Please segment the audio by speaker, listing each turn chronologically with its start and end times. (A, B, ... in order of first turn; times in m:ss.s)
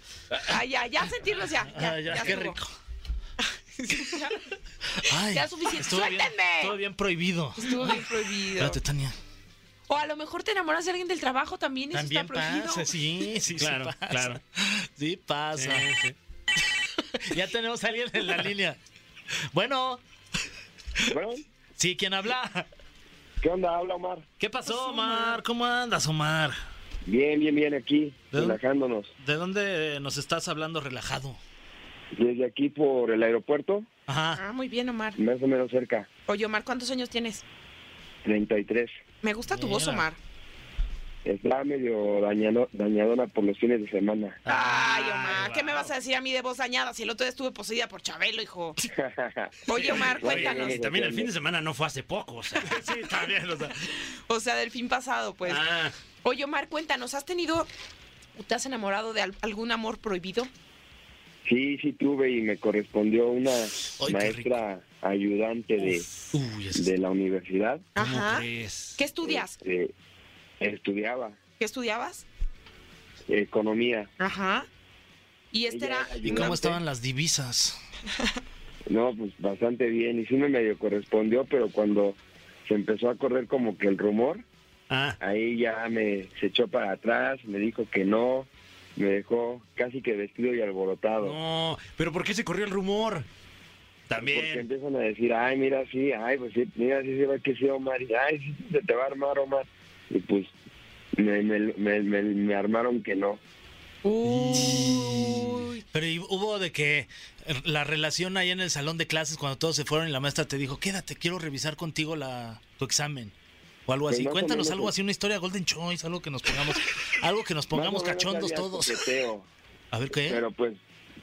0:00.4-0:02.6 A
0:01.7-0:02.7 B
0:03.4-0:04.5 A
0:05.0-0:09.2 B
0:05.2-0:06.8 A
0:07.6-0:08.8 A
0:09.9-0:12.9 A
0:11.9-0:15.9 B
0:13.6-0:14.4 C
0:15.5-0:16.1 C
0:17.0-0:18.8 B
0:19.5-0:20.0 B
0:21.1-0:21.4 D
0:21.8-0:22.7 B
0:23.4-0:24.2 D
0:24.4-0:26.6 B
0:24.6-0:25.4 A
0:27.0-0:29.1 D
0:28.3-0:28.6 B
0:29.2-0:31.4 B
0:32.2-0:33.9 D
0:34.1-0:34.4 B
0:34.4-0:35.2 A
0:35.2-0:36.1 D
0:36.3-0:37.4 A
0:38.2-0:38.9 D
0:39.2-0:40.2 A
0:39.5-0:40.0 B
0:41.2-0:44.4 D
0:44.5-0:48.8 A
0:44.5-0:45.9 C
0:48.9-0:51.3 D
0:49.7-0:50.8 A
0:49.8-0:53.7 C
0:52.7-0:53.7 B
0:53.9-0:55.7 A
0:55.4-0:55.9 C
0:56.2-0:57.7 A
0:58.4-1:00.5 A
1:01.4-1:06.0 D
1:04.0-1:04.6 B
1:05.8-1:06.9 B
1:06.7-1:07.8 D
1:08.0-1:09.6 A
1:08.0-1:09.0 C
1:09.2-1:09.9 D
1:10.6-1:11.4 D
1:11.6-1:12.2 A
1:13.3-1:14.1 D
1:14.2-1:14.6 A
1:15.5-1:16.6 A
1:15.7-1:16.8 D
1:16.2-1:17.8 B
1:18.9-1:24.4 D
1:24.9-1:25.2 C
1:25.2-1:31.4 D
1:31.2-1:33.2 C
1:34.1-1:34.6 C
1:34.2-1:40.5 D
1:41.2-1:43.4 D
1:44.0-1:45.8 A
1:44.2-1:53.3 B
1:53.9-1:59.1 B
1:54.1-1:54.9 D
1:57.7-1:59.5 D
1:59.9-2:00.4 B
2:00.2-2:00.8 D